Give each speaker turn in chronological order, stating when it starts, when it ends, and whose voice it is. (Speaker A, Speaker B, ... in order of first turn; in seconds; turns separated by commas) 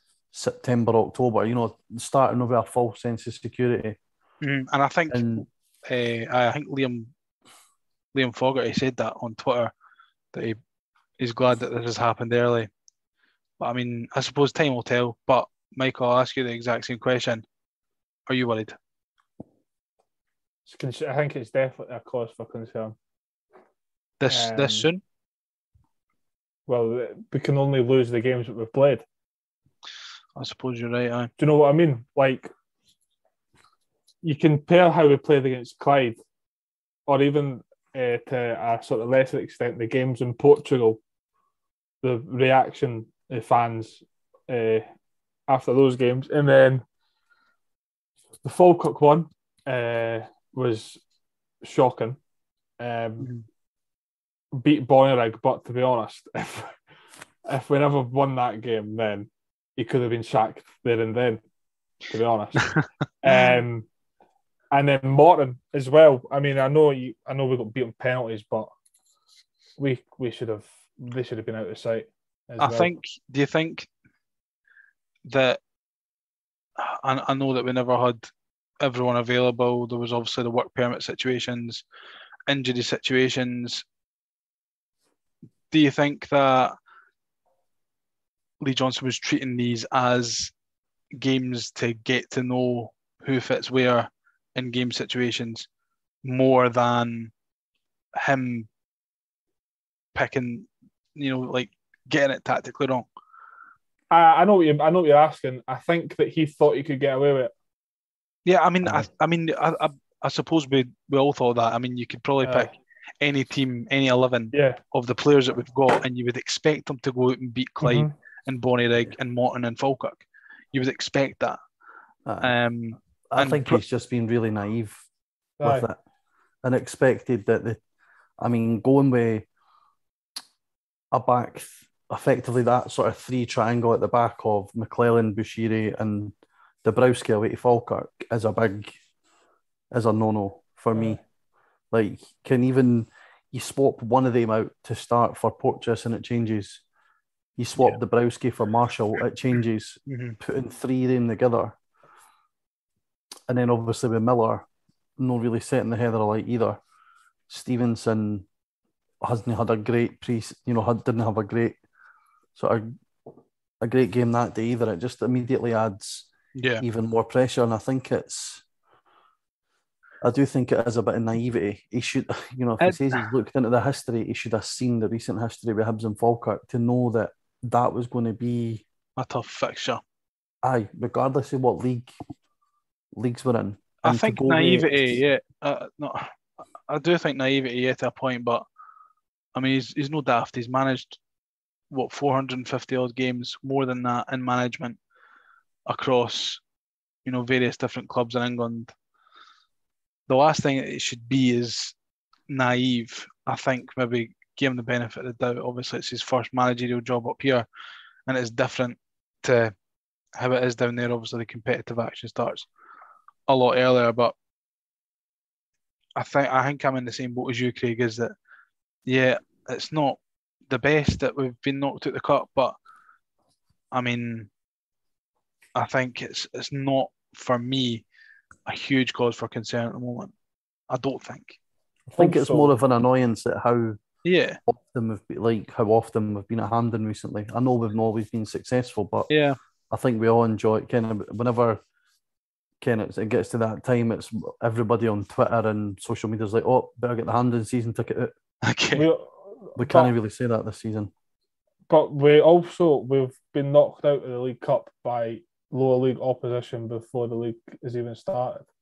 Speaker A: 0.3-4.0, Speaker B: 4.4-7.1, Speaker A: 5.1-5.5, Speaker B: 8.1-9.7, Speaker B: 11.2-12.7, Speaker B: 13.6-17.4, Speaker B: 18.3-18.8, Speaker C: 20.7-22.9, Speaker B: 24.2-25.0, Speaker C: 24.3-24.9, Speaker C: 26.7-29.1, Speaker B: 30.4-31.3, Speaker C: 31.4-32.5, Speaker C: 34.2-36.2, Speaker C: 37.1-41.0, Speaker C: 42.0-44.9, Speaker C: 45.5-46.8, Speaker C: 48.4-51.0, Speaker C: 51.6-52.2, Speaker C: 52.8-53.3, Speaker C: 54.5-56.8, Speaker C: 57.5-61.4, Speaker C: 62.1-62.7, Speaker C: 63.2-63.9, Speaker C: 64.7-68.7, Speaker C: 69.8-72.9, Speaker B: 72.6-73.9, Speaker B: 75.3-75.6, Speaker B: 76.8-78.3, Speaker B: 78.8-81.8, Speaker B: 82.5-83.8, Speaker B: 85.7-86.7, Speaker B: 88.6-90.5, Speaker B: 91.2-95.7, Speaker B: 96.2-97.3, Speaker B: 98.2-98.7, Speaker B: 100.2-103.1, Speaker C: 104.1-107.5, Speaker B: 108.5-121.6, Speaker C: 112.4-112.7, Speaker C: 114.5-114.8, Speaker C: 117.8-118.1, Speaker A: 122.3-122.5, Speaker B: 122.4-123.8, Speaker A: 123.3-125.0, Speaker C: 125.6-125.9, Speaker A: 125.6-126.0, Speaker A: 126.6-127.8, Speaker A: 128.4-129.5, Speaker A: 131.1-138.9, Speaker A: 139.9-141.2, Speaker A: 141.9-146.8, Speaker A: 147.6-151.8, Speaker B: 150.1-150.4, Speaker A: 153.5-154.7, Speaker A: 155.2-156.8, Speaker A: 157.5-158.5, Speaker A: 159.2-161.8, Speaker A: 162.6-162.9, Speaker A: 163.8-168.7, Speaker B: 166.6-166.8, Speaker A: 170.2-178.8, Speaker B: 172.8-173.2, Speaker B: 179.2-180.0, Speaker A: 180.6-182.1, Speaker A: 183.2-185.2, Speaker B: 184.1-186.3, Speaker B: 186.9-188.7, Speaker B: 189.6-191.2, Speaker B: 191.9-195.0, Speaker B: 195.9-196.6, Speaker B: 197.2-198.9, Speaker B: 200.3-201.9, Speaker B: 202.5-207.7, Speaker B: 208.3-209.7, Speaker B: 210.4-212.7, Speaker B: 213.5-214.3, Speaker B: 216.2-218.3, Speaker B: 219.1-222.8, Speaker B: 223.9-224.5, Speaker B: 225.8-228.0, Speaker B: 228.7-230.3, Speaker B: 230.9-231.6, Speaker C: 232.1-232.7, Speaker A: 232.2-234.0, Speaker B: 234.2-234.6, Speaker A: 234.7-239.3, Speaker B: 239.3-239.6, Speaker A: 239.9-241.8, Speaker A: 242.8-248.3, Speaker B: 248.6-249.1, Speaker C: 248.9-250.1, Speaker A: 249.8-251.1, Speaker C: 251.9-258.7